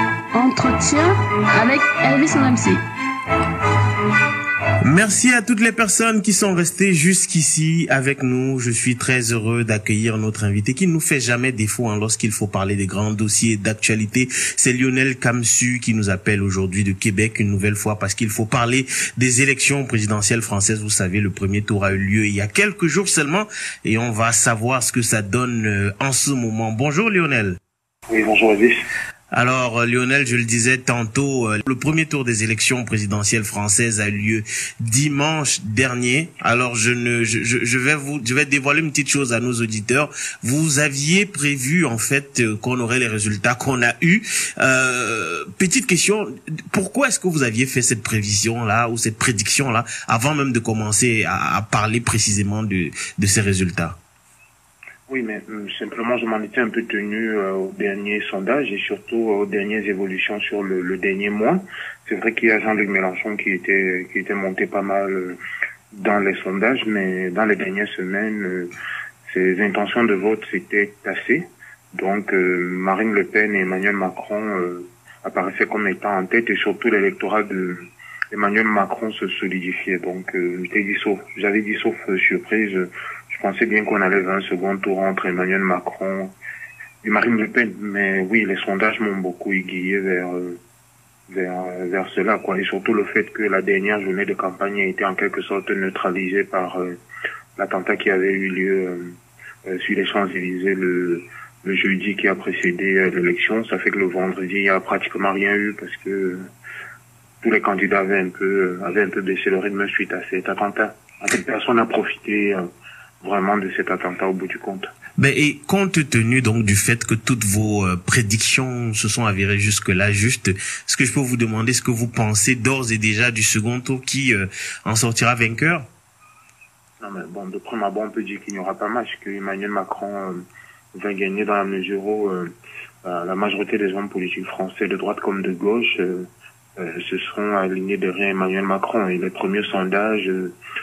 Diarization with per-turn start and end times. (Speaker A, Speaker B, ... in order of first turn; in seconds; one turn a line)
Speaker A: 0.3-2.8
Speaker B: 4.8-27.6
Speaker C: 28.1-28.9
Speaker B: 29.3-54.0
Speaker C: 55.1-65.4
Speaker C: 65.9-68.7
Speaker C: 69.3-86.3
Speaker C: 87.0-90.6
Speaker C: 91.3-97.0
Speaker C: 97.6-99.2
Speaker C: 99.7-106.5
Speaker C: 107.4-112.6
Speaker C: 113.2-114.9
Speaker B: 115.2-125.9
Speaker C: 127.0-132.5
Speaker C: 133.0-136.2
Speaker C: 136.8-140.6